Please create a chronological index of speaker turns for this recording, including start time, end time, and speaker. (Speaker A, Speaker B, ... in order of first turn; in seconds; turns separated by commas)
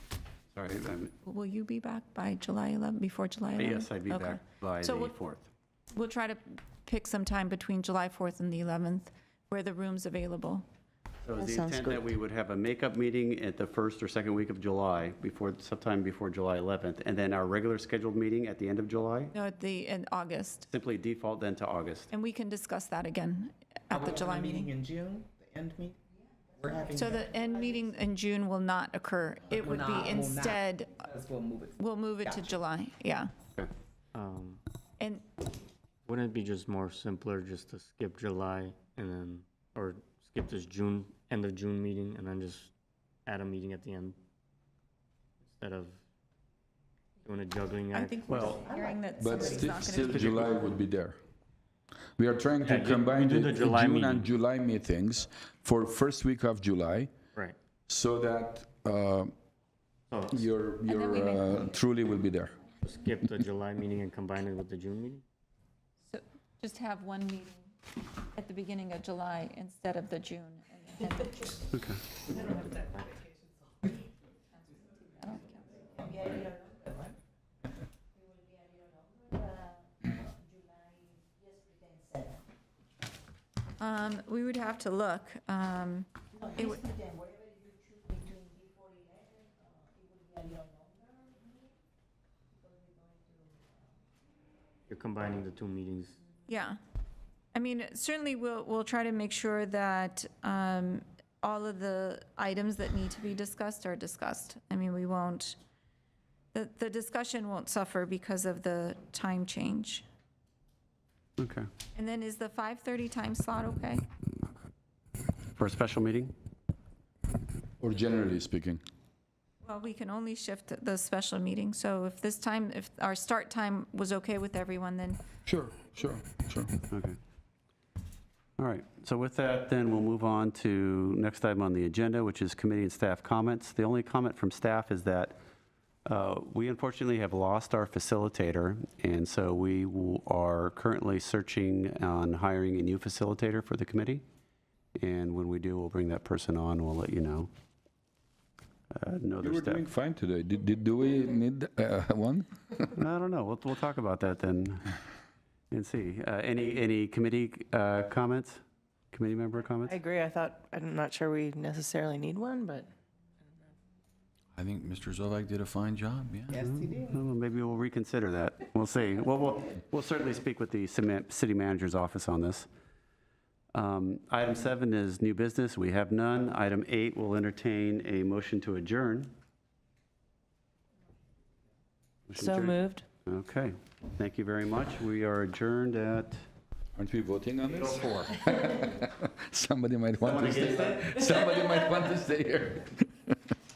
Speaker A: 0.5-1.1, Speaker B: 1.2-5.1, Speaker A: 3.6-5.5, Speaker B: 5.9-10.7, Speaker A: 11.2-19.3, Speaker B: 19.3-20.7, Speaker A: 20.7-22.1, Speaker B: 22.1-24.7, Speaker C: 23.9-26.0, Speaker C: 26.6-27.2, Speaker B: 26.9-31.1, Speaker C: 29.6-31.7, Speaker B: 31.8-33.3, Speaker D: 34.1-34.6, Speaker B: 35.0-35.3, Speaker D: 36.1-42.7, Speaker D: 43.3-44.2, Speaker D: 45.6-46.0, Speaker D: 47.2-48.6, Speaker B: 47.9-50.5, Speaker A: 48.3-48.5, Speaker C: 48.5-48.8, Speaker E: 49.2-51.2, Speaker C: 49.3-49.6, Speaker A: 50.2-50.5, Speaker E: 52.2-57.1, Speaker D: 52.6-54.3, Speaker E: 57.9-59.3, Speaker D: 60.1-60.5, Speaker E: 60.3-62.6, Speaker B: 60.9-61.9, Speaker D: 62.9-65.2, Speaker B: 66.1-67.7, Speaker B: 68.3-71.6, Speaker A: 71.7-72.0, Speaker B: 75.0-75.8, Speaker B: 83.8-86.9, Speaker D: 94.9-96.2, Speaker B: 96.5-96.8, Speaker B: 97.5-105.6, Speaker B: 106.5-110.0, Speaker A: 111.4-111.7, Speaker B: 112.0-114.0, Speaker A: 115.6-116.3, Speaker E: 117.8-118.8, Speaker B: 119.6-125.2, Speaker E: 125.5-126.8, Speaker A: 126.9-127.2, Speaker A: 128.6-135.4, Speaker A: 136.1-144.2, Speaker A: 145.0-147.5, Speaker A: 148.9-149.8, Speaker E: 149.4-152.9, Speaker A: 153.0-154.9, Speaker A: 155.7-160.0, Speaker F: 159.8-162.9, Speaker G: 164.6-166.6, Speaker C: 166.5-167.2, Speaker A: 166.6-172.7, Speaker A: 173.7-179.3, Speaker A: 182.3-186.4, Speaker F: 182.4-183.0, Speaker E: 186.9-193.4, Speaker A: 190.2-191.2